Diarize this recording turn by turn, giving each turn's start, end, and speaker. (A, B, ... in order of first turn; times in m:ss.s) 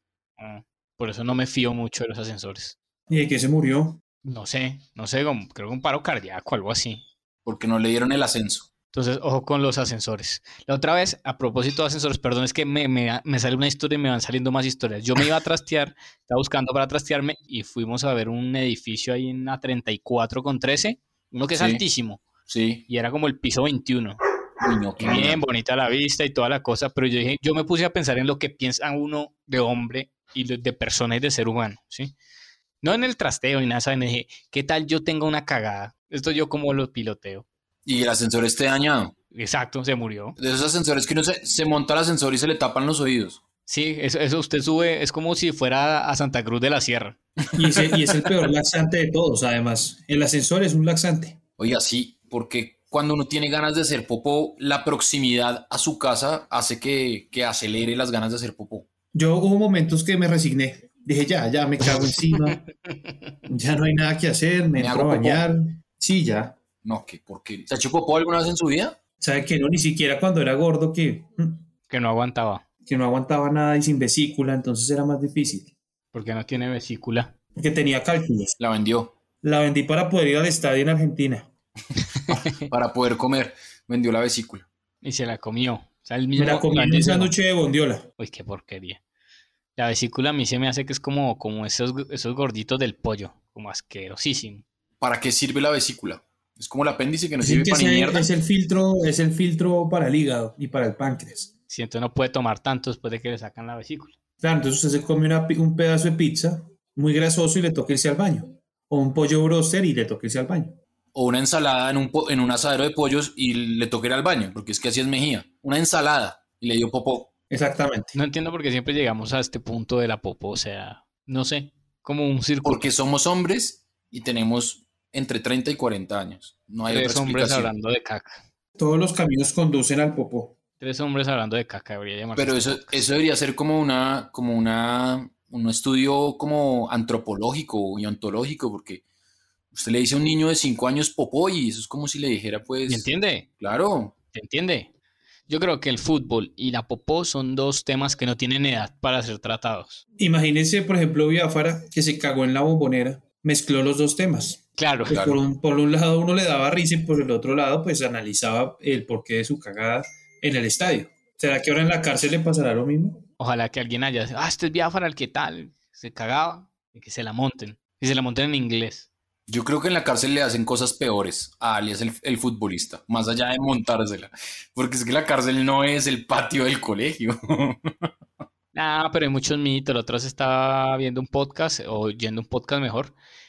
0:00.4-0:02.8 A
0:03.1-0:04.0 B
0:04.2-0:07.0 A
0:07.4-0:08.7 C
0:08.9-0:22.2 A
0:21.6-0:21.8 C
0:22.5-0:22.8 C
0:22.9-0:24.2 A
0:24.6-0:25.4 C
0:25.0-0:32.1 A
0:32.8-0:37.4 A
0:37.9-0:39.1 C
0:39.3-0:40.4 A
0:40.4-0:43.4 C
0:43.7-0:47.2 A
0:47.5-0:51.4 B
0:51.6-0:58.9 C
0:59.1-1:02.6 B
1:02.5-1:03.4 A
1:03.5-1:06.6 B
1:04.8-1:05.4 C
1:06.8-1:09.0 C
1:09.2-1:11.6 B
1:11.9-1:12.6 A
1:12.9-1:15.7 B
1:16.1-1:17.3 A
1:17.6-1:18.6 B
1:18.6-1:19.1 C
1:19.4-1:21.5 B
1:22.3-1:22.7 A
1:22.3-1:24.7 C
1:25.0-1:27.3 A
1:26.4-1:28.1 B
1:28.2-1:29.0 A
1:29.8-1:34.6 A
1:35.0-1:38.3 C
1:37.4-1:41.5 B
1:41.7-1:44.2 A
1:44.4-1:50.8 B
1:51.1-1:57.3 C
1:57.5-1:58.1 B
1:58.1-2:02.8 A
2:02.6-2:07.7 C
2:06.9-2:08.4 A
2:08.8-2:10.6 B
2:10.8-2:13.1 A
2:12.4-2:19.0 C
2:19.7-2:24.1 C
2:22.9-2:23.5 A
2:24.3-2:24.9 A
2:25.5-2:30.0 A
2:30.2-2:43.2 B
2:34.8-2:35.2 A
2:35.1-2:35.4 C
2:43.4-2:49.1 A
2:49.5-2:58.1 C
2:58.7-3:03.1 A